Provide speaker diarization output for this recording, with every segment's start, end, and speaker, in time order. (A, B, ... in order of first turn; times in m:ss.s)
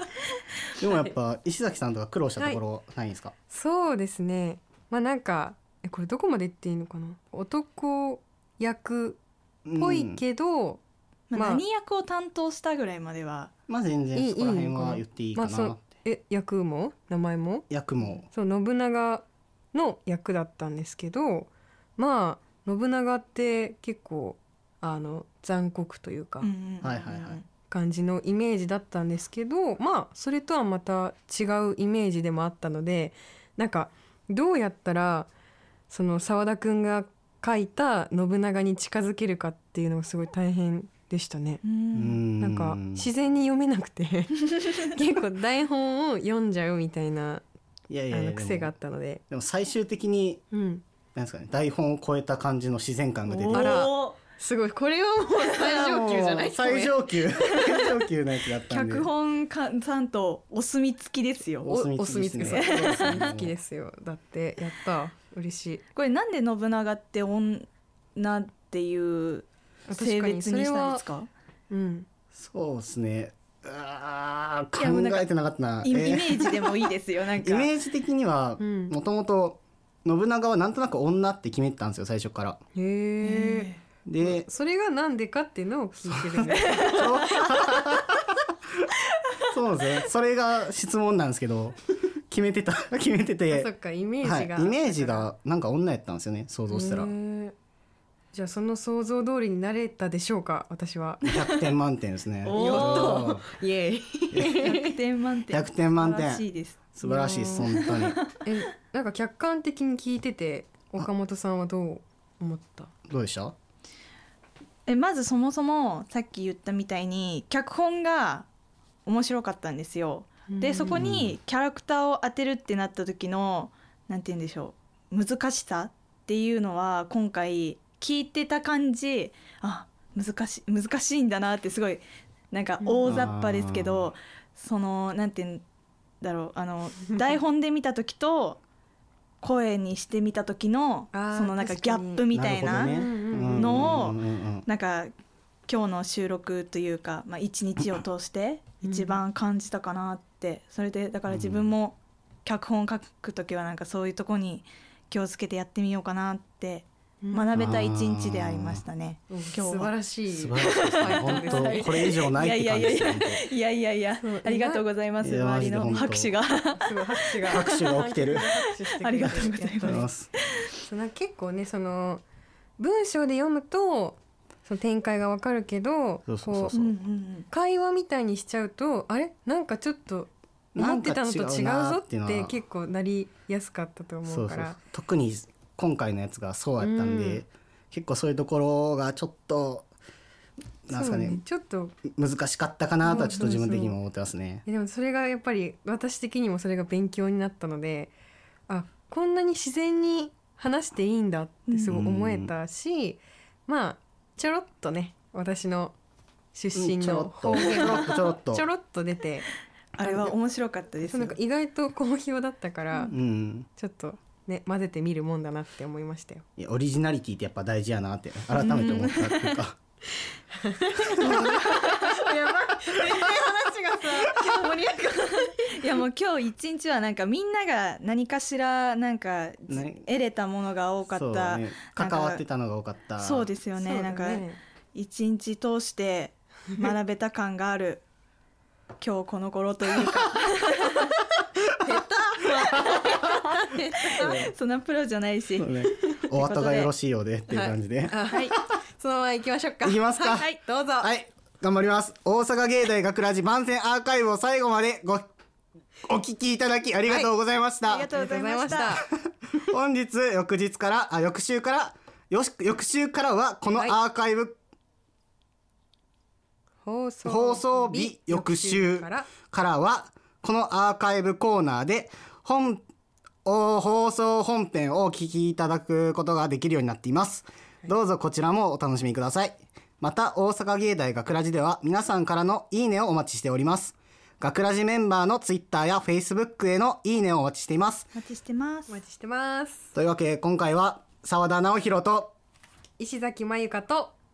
0:00.8-0:03.3 A
0:03.5-0:09.2 B
0:09.6-0:10.2 A
0:09.8-0:10.8 B
0:11.3-0:13.5 C
0:11.3-0:11.6 B
0:13.7-0:15.8 A
0:14.1-0:26.5 B
0:17.7-0:18.2 A
0:26.4-0:27.4 C
0:26.8-0:27.4 A
0:27.7-0:35.3 B
0:35.9-0:41.6 B
0:41.6-0:42.2 C
0:41.9-0:43.1 A
0:42.4-0:47.4 B
0:47.9-0:48.7 A
0:48.1-0:49.2 B
0:49.3-0:50.4 A
0:50.5-0:50.8 B
0:51.1-0:53.9 A
0:53.3-0:54.2 C
0:53.5-0:57.0 B
0:55.5-0:59.1 A
0:57.6-0:57.9 C
0:58.7-1:01.7 C
1:01.6-1:03.5 A
1:01.6-1:05.8 B
1:02.4-1:03.2 C
1:05.9-1:11.3 C
1:09.9-1:11.0 B
1:11.7-1:12.1 B
1:12.3-1:16.6 A
1:14.8-1:15.3 C
1:15.8-1:17.7 C
1:17.4-1:22.6 A
1:18.6-1:18.9 B
1:22.7-1:27.2 B
1:23.2-1:23.8 C
1:24.0-1:24.5 A
1:26.0-1:28.3 A
1:26.6-1:27.4 C
1:29.5-1:31.8 A
1:32.3-1:37.1 A
1:33.5-1:35.3 B
1:36.7-1:37.5 B
1:38.3-1:41.3 B
1:41.2-1:43.4 A
1:42.4-1:43.3 C
1:42.5-1:44.9 B
1:44.3-1:44.6 A
1:44.6-1:46.8 C
1:45.5-1:46.4 A
1:46.9-1:48.2 A
1:47.0-1:47.8 B
1:47.5-1:48.4 C
1:48.4-1:52.9 B
1:53.1-1:53.5 A
1:54.9-1:58.5 C
1:59.0-2:15.6 C
2:00.5-2:01.0 B
2:00.9-2:01.3 A
2:12.8-2:13.3 B
2:13.0-2:14.1 A
2:16.2-2:18.6 C
2:19.4-2:25.1 C
2:21.1-2:24.1 B
2:22.3-2:24.6 A
2:25.7-2:39.9 C
2:28.8-2:29.2 B
2:31.3-2:31.7 A
2:37.2-2:37.7 B
2:37.5-2:38.8 A
2:39.3-2:42.1 B
2:40.3-2:43.4 A
2:40.6-2:47.9 C
2:44.2-2:44.8 B
2:45.2-2:46.3 A
2:45.9-2:50.1 B
2:47.4-2:48.5 A
2:48.6-2:50.1 C
2:49.8-2:50.3 A
2:50.8-2:52.2 B
2:52.8-2:56.8 B
2:56.3-2:56.9 A
2:56.7-2:57.5 C
2:57.5-3:04.8 B
3:00.7-3:02.6 A
3:04.2-3:09.9 A
3:06.8-3:07.4 B
3:10.8-3:11.4 A
3:10.9-3:12.0 B
3:12.1-3:14.6 A
3:13.0-3:14.0 B
3:14.6-3:18.1 B
3:18.7-3:26.0 B
3:21.7-3:22.0 C
3:21.8-3:22.5 A
3:26.5-3:29.5 B
3:26.7-3:28.7 A
3:27.6-3:27.8 C
3:30.0-3:31.4 C
3:30.0-3:30.4 B
3:31.1-3:33.2 B
3:33.1-3:33.7 A
3:33.8-3:36.4 B
3:36.6-3:39.8 A
3:38.5-3:39.6 C
3:40.6-3:45.5 B
3:41.2-3:42.2 C
3:42.9-3:43.4 C
3:44.0-3:52.4 C
3:49.7-3:50.0 A
3:51.1-3:53.5 A
3:53.2-3:58.0 C
3:53.8-3:54.6 B
3:59.0-4:01.2 C
4:01.8-4:04.5 B
4:02.4-4:06.9 C
4:05.6-4:08.4 A
4:07.5-4:11.1 B
4:09.8-4:10.5 A
4:11.0-4:15.3 A
4:16.1-4:18.1 A
4:17.9-4:19.0 C
4:18.1-4:19.0 B
4:19.0-4:24.6 A
4:23.7-4:24.0 B
4:26.8-4:29.3 B
4:27.2-4:32.8 A
4:33.4-4:48.1 A
4:48.1-4:49.0 C
4:48.9-4:49.9 B
4:49.9-4:52.3 A
4:53.0-4:54.1 B